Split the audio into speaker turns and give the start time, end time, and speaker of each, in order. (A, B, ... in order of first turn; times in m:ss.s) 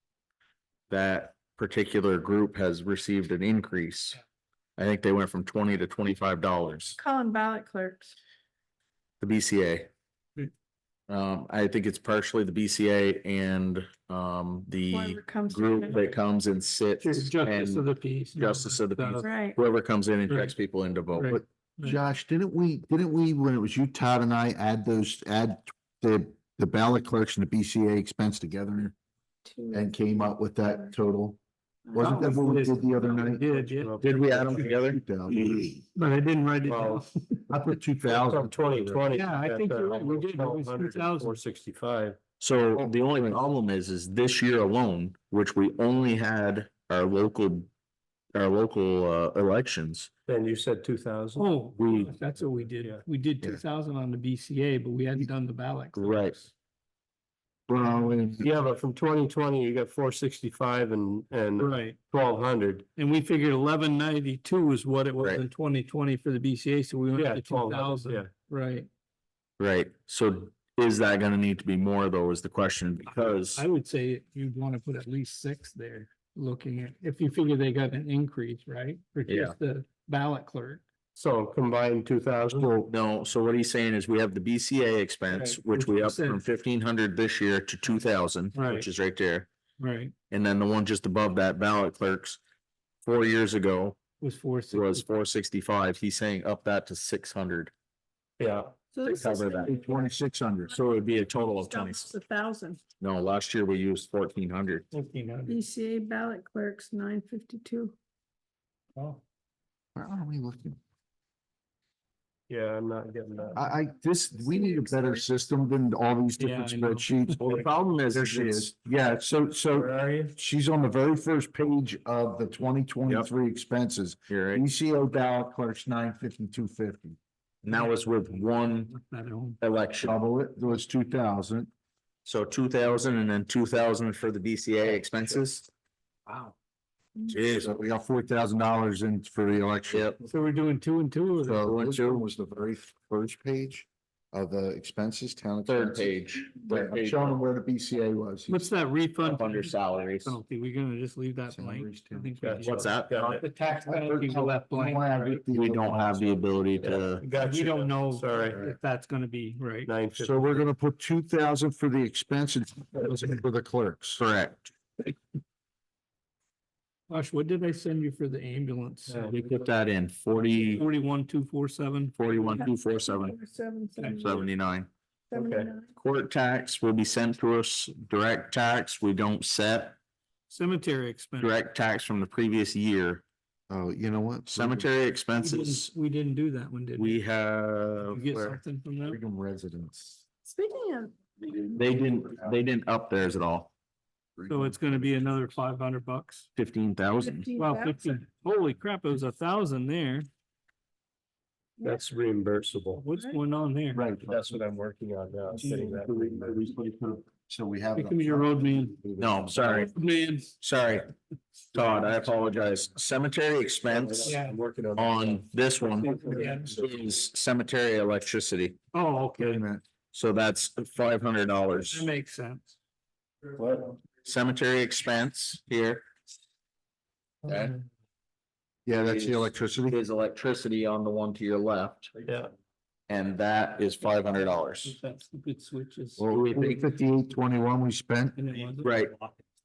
0:00.9-0:04.2 A
0:04.8-0:07.0 A
0:07.0-0:08.1 B
0:09.2-0:09.9 A
0:11.1-0:21.4 A
0:14.9-0:16.0 B
0:17.0-0:19.3 C
0:19.2-0:19.6 B
0:20.3-0:20.5 C
0:21.1-0:22.0 C
0:21.3-0:28.9 D
0:29.4-0:30.9 B
0:29.7-0:31.4 D
0:31.8-0:33.2 B
0:31.9-0:33.4 D
0:32.0-0:34.0 C
0:33.3-0:34.6 E
0:34.0-0:35.0 A
0:34.9-0:35.8 D
0:35.4-0:37.4 C
0:36.6-0:37.1 E
0:37.5-0:39.1 D
0:38.0-0:42.2 E
0:39.1-0:41.4 C
0:42.4-0:47.7 A
0:42.8-0:43.4 D
0:48.3-0:50.1 A
0:50.3-0:52.1 E
0:51.4-0:56.5 C
0:55.9-0:56.4 A
0:57.7-0:58.5 D
0:58.4-1:02.8 E
1:01.6-1:02.0 C
1:03.0-1:08.9 C
1:07.1-1:08.3 E
1:09.6-1:13.6 A
1:13.2-1:20.8 C
1:19.3-1:19.6 A
1:21.1-1:22.7 E
1:22.6-1:29.5 A
1:25.3-1:26.4 C
1:28.5-1:28.8 C
1:29.8-1:30.1 C
1:30.3-1:32.4 A
1:33.0-1:34.0 A
1:34.2-1:35.0 C
1:34.7-1:37.7 A
1:38.4-1:38.7 E
1:38.9-1:40.1 B
1:39.0-1:39.8 A
1:39.4-1:40.8 D
1:40.7-1:42.1 A
1:41.0-1:42.8 B
1:43.0-1:44.8 A
1:44.9-1:45.6 C
1:45.5-1:48.0 B
1:49.9-1:50.8 D
1:52.5-1:53.7 E
1:53.6-2:07.2 D
1:54.3-1:55.2 B
1:56.4-1:57.6 C
1:57.4-1:58.7 A
1:59.7-2:00.4 E
2:04.3-2:04.6 A
2:07.6-2:08.9 A
2:07.8-2:09.6 C
2:09.6-2:10.2 A
2:10.0-2:11.7 D
2:12.2-2:15.7 A
2:17.3-2:17.7 A
2:17.5-2:20.2 D
2:19.9-2:20.2 A
2:20.3-2:21.7 C
2:21.4-2:28.7 D
2:21.7-2:22.2 A
2:25.6-2:27.4 A
2:28.5-2:35.4 C
2:29.2-2:30.4 A
2:31.5-2:32.6 D
2:32.4-2:33.4 E
2:32.6-2:33.2 A
2:33.2-2:36.3 D
2:35.5-2:37.2 A
2:36.8-2:38.6 E
2:37.2-2:39.9 C
2:39.8-2:40.6 E
2:40.2-2:44.2 D
2:44.2-2:44.7 A
2:47.1-2:49.4 C
2:49.1-2:49.4 E
2:49.3-2:50.8 A
2:50.7-2:52.3 C
2:52.2-2:53.4 A
2:52.6-2:54.4 B
2:54.2-2:54.9 A
2:55.3-2:55.9 B
2:55.3-2:55.7 E
2:56.0-3:00.0 A
3:00.5-3:01.5 C
3:01.4-3:03.2 A
3:03.7-3:04.9 D
3:04.4-3:05.8 A
3:05.4-3:07.2 C
3:07.0-3:08.4 A
3:08.1-3:09.2 C
3:09.0-3:10.2 D
3:10.4-3:11.7 B
3:11.7-3:13.7 A
3:12.2-3:12.6 D
3:14.4-3:15.4 D
3:14.5-3:16.4 C
3:16.6-3:17.5 A
3:17.2-3:18.0 B
3:17.6-3:20.3 C
3:21.8-3:23.0 E
3:23.0-3:24.0 C
3:23.1-3:23.4 B
3:23.9-3:24.6 D
3:24.1-3:26.6 E
3:25.5-3:29.9 D
3:27.9-3:29.0 C
3:29.2-3:29.9 A
3:29.6-3:30.5 C
3:30.6-3:31.1 A
3:31.7-3:34.3 A
3:33.8-3:35.4 E
3:34.2-3:34.6 C
3:35.0-3:38.8 A
3:36.0-3:36.8 C
3:36.0-3:36.6 E
3:38.9-3:39.6 C
3:39.4-3:39.8 D
3:40.1-3:42.1 A
3:41.8-3:42.7 C
3:43.6-3:44.0 E
3:44.2-3:46.0 A
3:47.4-3:47.7 A
3:48.8-3:50.0 D
3:48.9-3:52.1 A
3:52.2-3:52.5 E
3:53.1-3:54.9 A
3:54.8-3:56.8 C
3:56.2-3:58.4 D
3:56.3-3:56.7 A
3:58.4-3:58.9 C
3:58.8-3:59.1 A